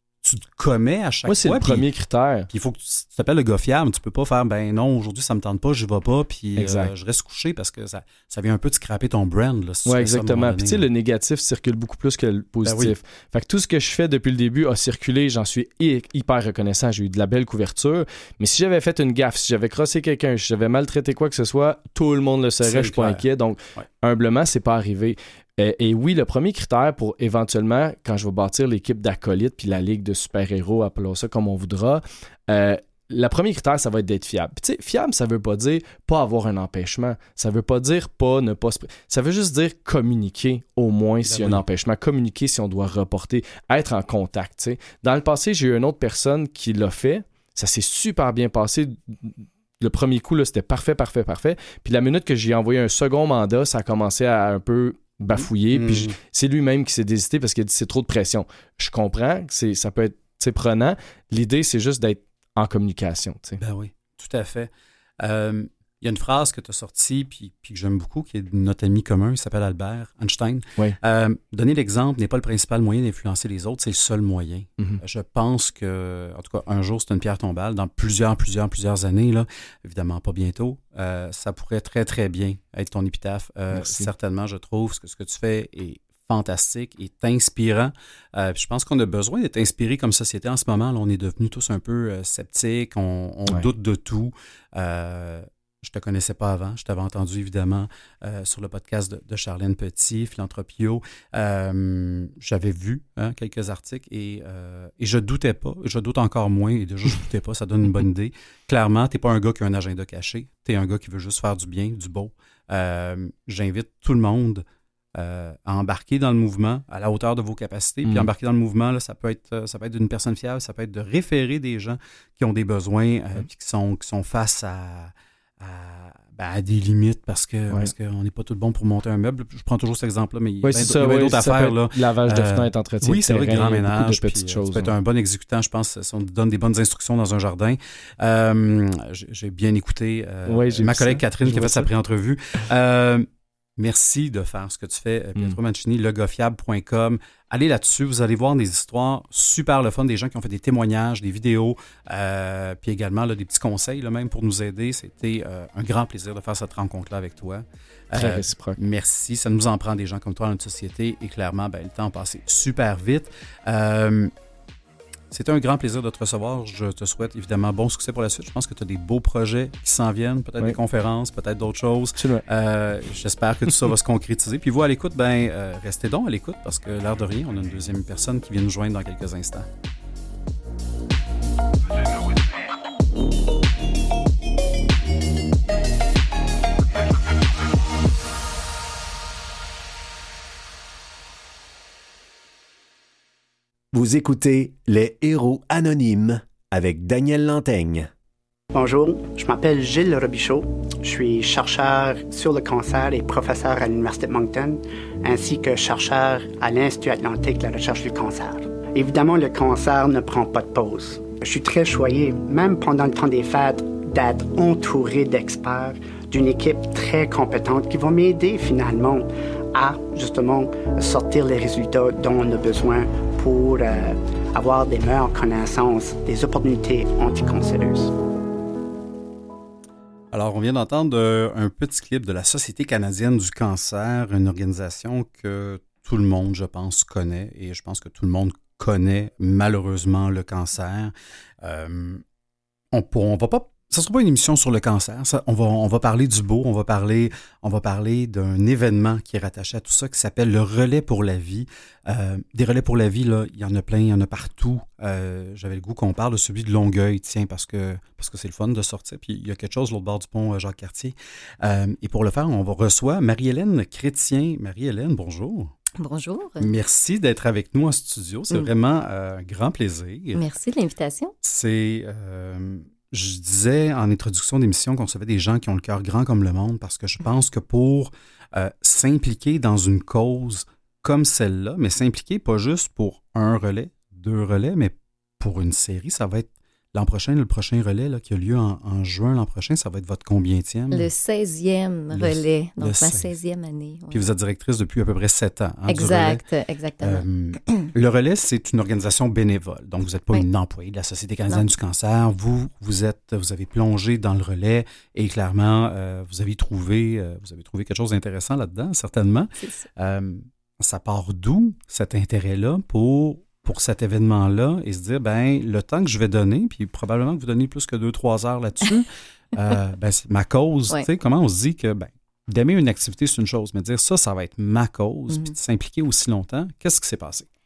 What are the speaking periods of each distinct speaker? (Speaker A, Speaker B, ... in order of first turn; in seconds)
Speaker A: 0.2-1.9, 2.5-10.8, 12.6-12.9, 22.6-23.2, 41.2-41.6, 55.7-56.1, 63.6-114.6, 115.1-164.3, 165.3-179.7, 230.3-242.2, 242.9-265.7, 266.6-270.4, 271.4-291.1, 292.1-293.3, 294.1-296.4, 297.0-327.4
Speaker B: 1.2-2.5, 6.5-6.9, 9.9-63.6, 83.7-84.1, 130.6-134.9, 140.5-141.9, 158.1-158.8, 172.2-172.4
Speaker C: 193.9-198.1
Speaker D: 198.7-228.1
Speaker E: 266.0-266.7, 270.4-271.3, 290.9-294.3, 295.9-297.9, 309.6-309.9